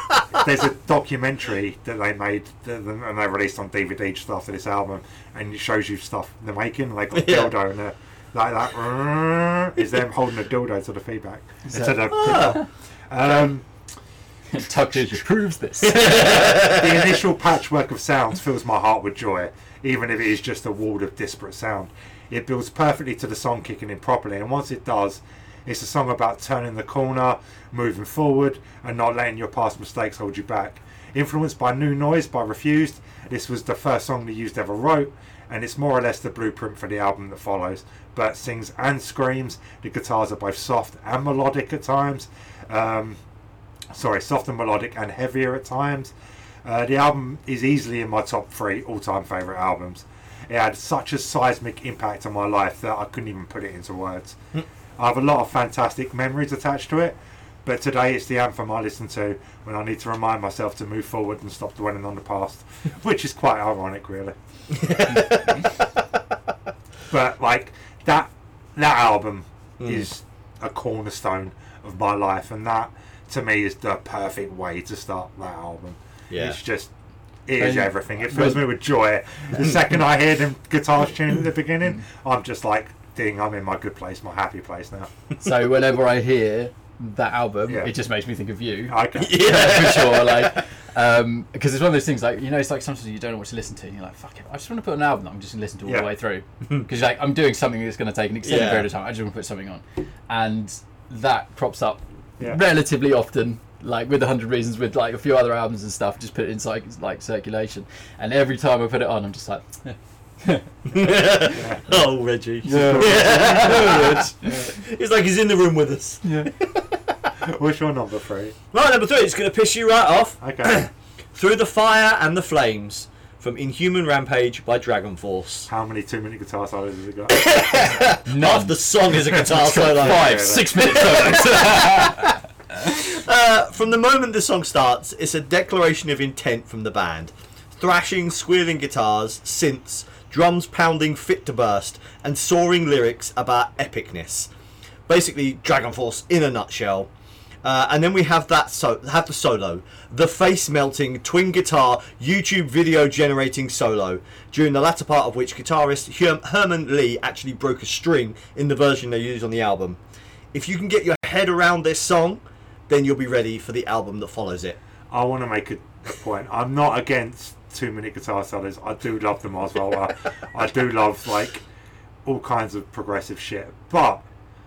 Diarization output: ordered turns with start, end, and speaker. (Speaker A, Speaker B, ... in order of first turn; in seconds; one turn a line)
Speaker A: 0.3-13.7
Speaker B: 7.1-7.5
Speaker C: 11.7-12.6
Speaker B: 12.1-12.6
Speaker C: 14.5-16.6
Speaker B: 15.9-17.2
Speaker A: 16.3-43.2
Speaker A: 43.9-46.1
Speaker A: 46.6-54.4
Speaker A: 55.0-65.5
Speaker B: 64.7-65.9
Speaker A: 67.1-76.9
Speaker B: 69.8-70.1
Speaker B: 76.3-76.6
Speaker A: 77.5-85.1
Speaker C: 77.6-78.6
Speaker C: 85.4-111.4
Speaker A: 88.9-89.4
Speaker B: 89.2-90.6
Speaker B: 98.4-98.9
Speaker B: 110.9-117.3
Speaker A: 111.5-111.9
Speaker C: 112.6-114.7
Speaker A: 112.7-114.7
Speaker C: 116.2-116.5
Speaker A: 117.4-118.5
Speaker B: 118.7-125.7
Speaker A: 120.4-120.9
Speaker A: 125.7-127.5
Speaker B: 127.3-144.5
Speaker C: 128.2-132.4
Speaker A: 129.7-131.2
Speaker B: 145.1-147.1
Speaker B: 147.6-160.0
Speaker B: 160.5-164.8
Speaker A: 165.1-171.6
Speaker A: 172.2-174.2